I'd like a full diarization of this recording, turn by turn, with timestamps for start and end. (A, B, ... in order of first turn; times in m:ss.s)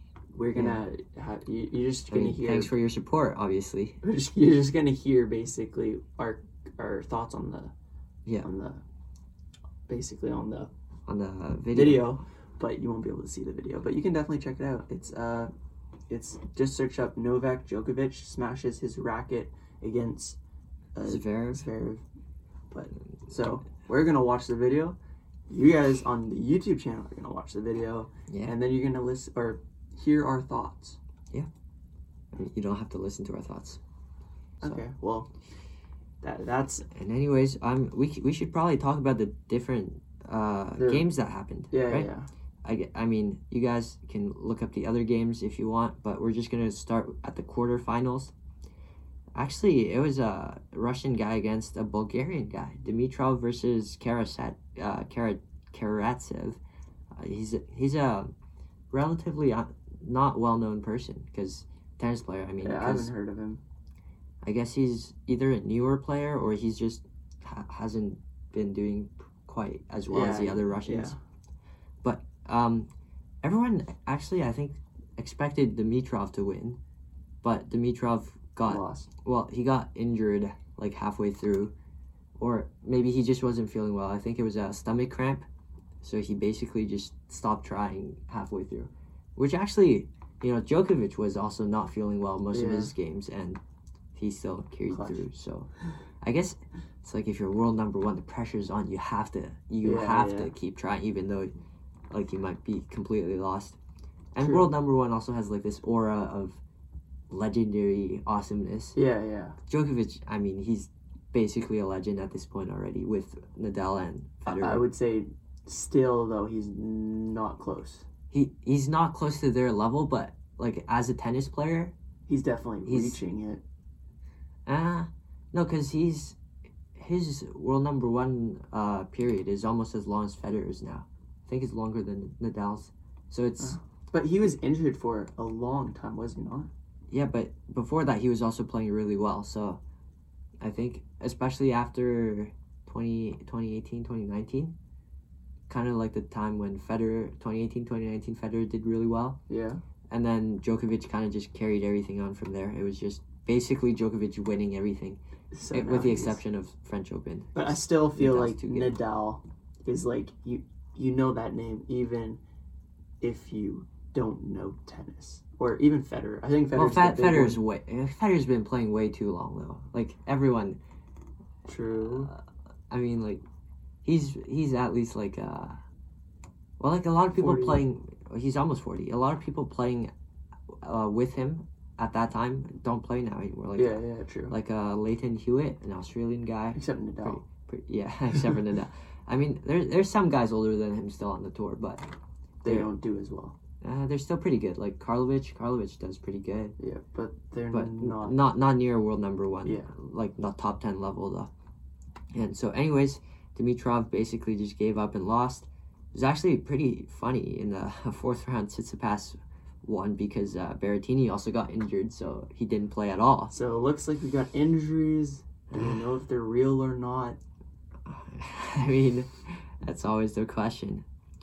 0:00.3-0:02.7 A
0:00.5-0:00.8 B
0:02.1-0:04.0 B
0:04.0-0:07.7 A
0:08.4-0:08.8 A
0:09.9-0:10.7 A
0:11.1-0:12.2 B
0:11.7-0:15.5 A
0:16.1-0:20.4 A
0:20.9-0:22.0 A
0:21.0-0:21.6 B
0:22.7-0:25.0 A
0:25.5-0:31.0 A
0:28.3-0:28.5 B
0:32.3-0:33.8 B
0:34.6-0:35.3 A
0:36.2-0:36.8 A
0:36.9-0:42.1 B
0:40.8-0:41.1 A
0:41.7-0:42.3 A
0:42.6-0:48.3 B
0:49.3-0:56.6 B
0:57.1-0:58.3 B
0:58.9-1:03.1 B
1:02.6-1:03.6 A
1:04.4-1:11.1 B
1:10.1-1:11.2 A
1:12.0-1:12.9 B
1:13.4-1:16.8 B
1:17.4-1:21.7 B
1:18.7-1:19.1 A
1:22.4-1:25.4 B
1:26.0-1:33.6 B
1:32.5-1:32.9 A
1:34.1-1:35.7 B
1:34.9-1:35.2 A
1:36.2-1:41.5 B
1:39.8-1:40.5 A
1:42.1-1:43.8 B
1:44.3-1:46.6 B
1:44.4-1:44.7 A
1:47.3-1:49.0 B
1:48.9-1:49.6 A
1:49.6-1:54.8 B
1:54.4-1:58.1 A
1:58.3-2:01.9 B
2:02.3-2:03.6 A
2:02.8-2:03.2 B
2:04.6-2:06.4 B
2:06.9-2:13.8 B
2:13.6-2:16.7 A
2:17.1-2:19.8 B
2:20.6-2:24.7 B
2:25.7-2:29.4 B
2:29.5-2:29.8 A
2:30.1-2:35.2 B
2:35.5-2:36.4 A
2:35.7-2:37.5 B
2:37.5-2:42.4 A
2:38.1-2:39.0 B
2:43.2-2:47.6 A
2:46.7-2:50.8 B
2:51.6-2:52.3 A
2:51.9-2:53.4 B
2:54.0-2:55.8 B
2:56.8-3:00.1 B
2:57.3-2:57.8 A
3:00.7-3:12.0 B
3:03.8-3:04.5 A
3:06.7-3:07.4 A
3:12.6-3:13.6 A
3:12.6-3:12.9 B
3:13.8-3:16.8 B
3:16.8-3:18.4 A
3:17.7-3:21.5 B
3:19.6-3:19.9 A
3:22.3-3:33.5 B
3:33.5-3:37.4 A
3:35.7-3:36.1 B
3:38.0-3:41.0 B